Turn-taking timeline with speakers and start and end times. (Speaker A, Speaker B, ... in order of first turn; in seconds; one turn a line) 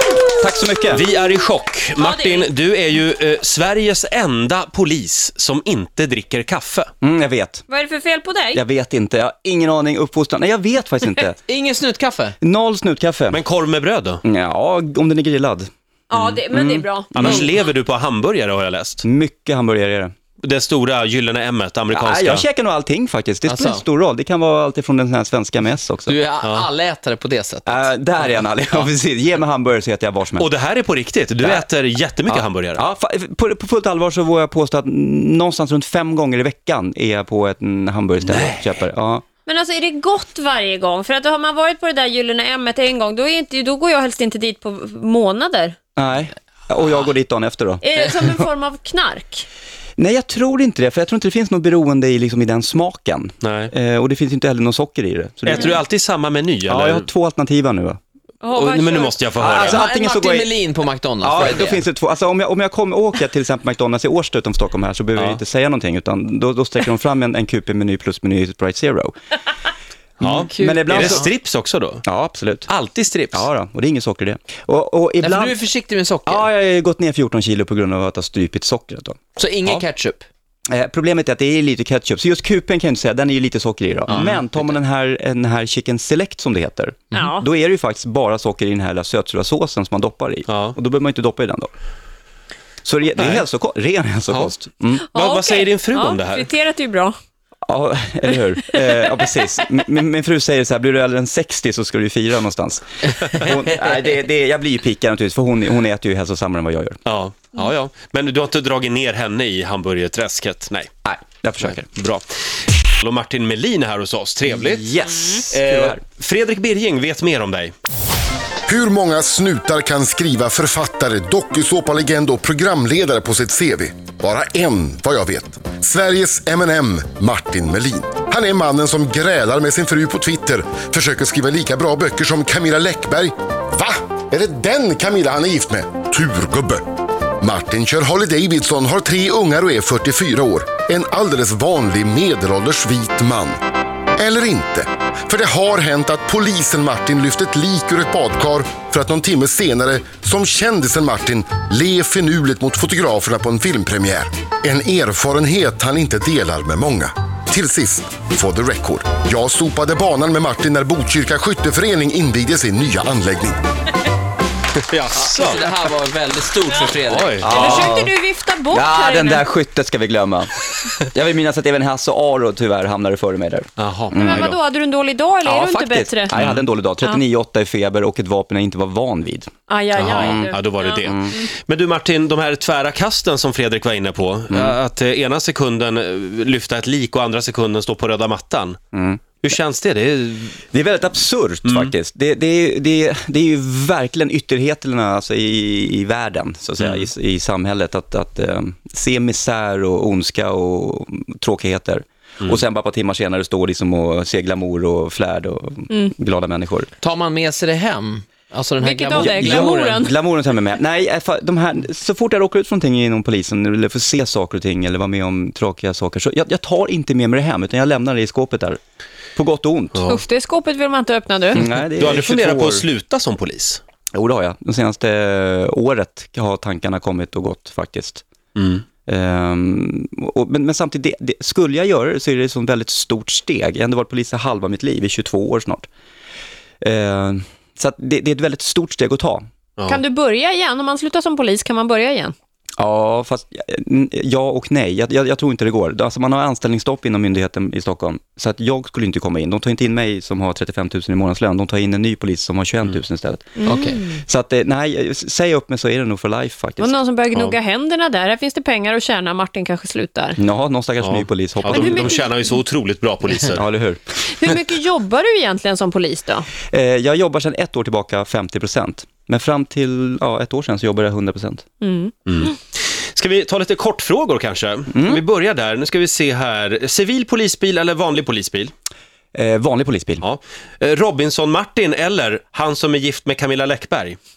Speaker A: 0.4-1.1
Speaker B: 1.0-6.9
Speaker C: 2.0-2.5
Speaker A: 7.0-7.6
Speaker C: 7.7-8.6
Speaker A: 8.5-11.4
Speaker D: 11.5-12.3
Speaker A: 12.4-13.4
Speaker B: 13.5-14.2
Speaker A: 14.2-15.7
Speaker C: 16.1-17.4
Speaker A: 16.5-17.4
Speaker B: 17.1-19.0
Speaker A: 19.0-20.1
Speaker B: 20.4-22.4
Speaker A: 21.9-26.2
Speaker D: 23.4-23.8
Speaker D: 26.1-28.9
Speaker A: 27.6-30.5
Speaker B: 30.4-32.8
Speaker A: 32.3-39.2
Speaker C: 39.5-45.8
Speaker A: 46.0-48.4
Speaker C: 47.8-49.4
Speaker A: 50.0-55.8
Speaker B: 55.5-57.0
Speaker A: 56.7-58.0
Speaker C: 58.4-59.3
Speaker B: 58.6-59.8
Speaker A: 59.4-60.5
Speaker D: 59.6-61.8
Speaker A: 61.2-69.1
Speaker B: 70.2-72.0
Speaker A: 70.2-71.2
Speaker D: 70.4-71.3
Speaker A: 72.0-72.7
Speaker B: 72.7-73.4
Speaker A: 73.3-75.6
Speaker D: 75.2-76.5
Speaker A: 76.2-79.8
Speaker D: 79.3-80.2
Speaker A: 80.7-91.7
Speaker D: 84.1-84.8
Speaker C: 87.1-87.4
Speaker B: 90.5-90.7
Speaker A: 92.8-95.0
Speaker B: 94.3-94.6
Speaker C: 95.1-97.1
Speaker B: 95.1-96.4
Speaker A: 97.7-107.0
Speaker B: 107.0-110.9
Speaker A: 111.0-111.9
Speaker B: 111.6-112.2
Speaker B: 113.0-114.9
Speaker A: 114.5-116.0
Speaker B: 115.5-117.7
Speaker E: 118.7-136.8
Speaker E: 137.4-143.6
Speaker E: 144.1-163.6
Speaker B: 164.8-165.6
Speaker D: 165.1-168.0
Speaker B: 167.1-167.4
Speaker C: 167.4-169.4
Speaker A: 167.4-168.1
Speaker A: 168.7-174.5
Speaker B: 173.8-174.6
Speaker C: 174.1-176.4
Speaker A: 175.4-179.5
Speaker C: 179.7-181.5
Speaker B: 180.0-181.0
Speaker A: 180.0-181.3
Speaker B: 181.6-188.8
Speaker A: 184.5-184.8
Speaker A: 188.9-189.2
Speaker B: 189.4-190.6
Speaker A: 190.7-206.9
Speaker B: 191.7-191.9
Speaker D: 207.0-210.0
Speaker C: 208.8-210.1
Speaker A: 209.1-218.8
Speaker A: 219.3-220.0
Speaker C: 220.0-221.8
Speaker A: 221.5-222.8
Speaker B: 221.9-223.8
Speaker A: 224.1-228.2
Speaker B: 228.6-228.8
Speaker A: 229.1-235.8
Speaker A: 236.8-239.4
Speaker C: 239.9-242.3
Speaker A: 242.8-257.0
Speaker C: 253.6-254.2
Speaker D: 253.7-254.0
Speaker C: 256.8-260.4
Speaker A: 260.4-262.2
Speaker B: 261.0-263.7
Speaker C: 261.6-262.6
Speaker A: 263.5-264.0
Speaker C: 264.2-266.5
Speaker A: 266.7-271.6
Speaker C: 271.8-272.5
Speaker B: 272.3-278.7
Speaker A: 274.9-275.2
Speaker A: 279.3-280.2
Speaker B: 280.2-284.2